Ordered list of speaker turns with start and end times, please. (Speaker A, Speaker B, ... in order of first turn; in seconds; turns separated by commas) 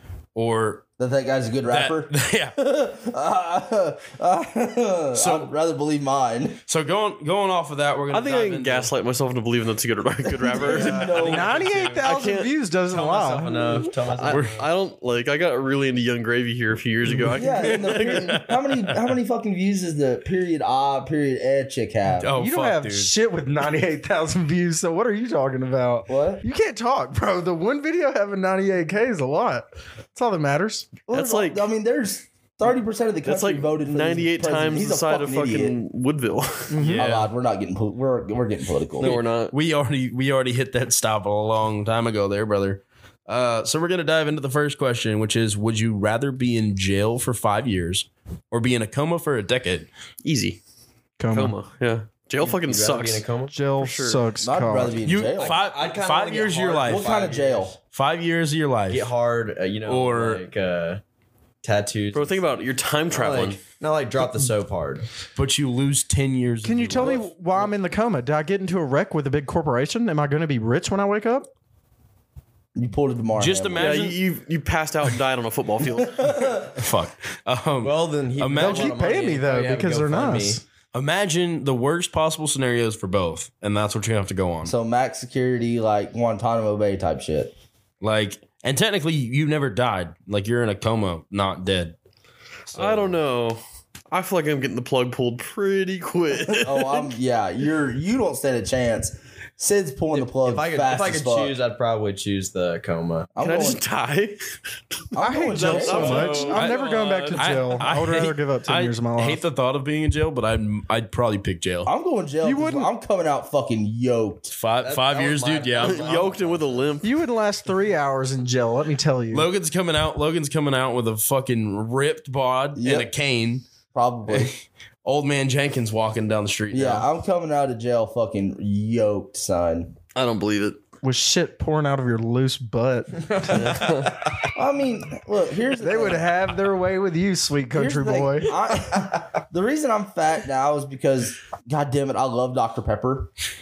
Speaker A: 0.3-0.9, Speaker B: 1.0-6.6, Speaker A: 1.7-2.5, Speaker A: 5.1-5.5, Speaker A: 6.7-8.9, Speaker C: 8.1-11.3, Speaker B: 10.4-11.6, Speaker D: 10.6-12.2, Speaker E: 11.2-13.9, Speaker C: 12.0-12.5, Speaker D: 12.8-14.7, Speaker C: 14.2-18.4, Speaker A: 14.3-14.6, Speaker B: 17.3-22.3, Speaker A: 17.6-18.9, Speaker A: 22.2-23.1, Speaker E: 22.3-30.9, Speaker B: 26.1-26.4, Speaker B: 31.1-35.8, Speaker C: 31.1-31.6, Speaker C: 33.2-36.9, Speaker E: 36.7-37.0, Speaker A: 36.8-37.3, Speaker B: 37.0-39.2, Speaker C: 39.0-39.5, Speaker A: 39.0-49.9, Speaker C: 50.2-50.6, Speaker E: 51.2-51.5, Speaker C: 51.3-53.2, Speaker D: 52.4-53.5, Speaker E: 53.5-55.0, Speaker C: 53.8-54.2, Speaker B: 54.4-55.6, Speaker A: 55.0-57.2, Speaker D: 55.4-57.7, Speaker B: 56.8-57.8, Speaker A: 57.9-59.1, Speaker D: 58.9-61.0, Speaker A: 59.8-60.4, Speaker D: 61.6-62.5, Speaker C: 62.1-63.6, Speaker D: 63.1-65.0, Speaker A: 65.3-67.2, Speaker E: 66.6-71.5, Speaker B: 72.7-73.9, Speaker A: 73.4-74.2, Speaker C: 73.8-76.6, Speaker B: 76.2-76.5, Speaker A: 76.7-79.0, Speaker D: 77.8-80.6, Speaker E: 78.5-80.6, Speaker A: 80.9-84.7, Speaker B: 84.6-87.5, Speaker A: 88.0-91.9, Speaker A: 92.7-93.2, Speaker C: 92.7-93.6, Speaker C: 94.1-97.1, Speaker B: 96.5-101.6, Speaker D: 100.1-103.3, Speaker B: 103.3-103.8, Speaker C: 103.4-104.4, Speaker B: 105.1-106.6, Speaker E: 105.2-109.4, Speaker C: 105.5-107.8, Speaker D: 105.7-107.5, Speaker A: 107.3-111.9, Speaker B: 111.8-114.5, Speaker E: 112.4-112.9, Speaker A: 114.5-116.3, Speaker D: 114.8-116.9, Speaker C: 115.8-117.1, Speaker E: 117.0-119.5, Speaker A: 119.3-123.6, Speaker B: 122.8-123.1, Speaker B: 123.9-124.5, Speaker A: 124.3-127.0, Speaker B: 126.7-129.9, Speaker C: 130.1-130.8, Speaker E: 131.0-133.8, Speaker C: 133.5-134.2, Speaker B: 134.5-136.3, Speaker E: 135.8-138.6, Speaker B: 137.7-143.3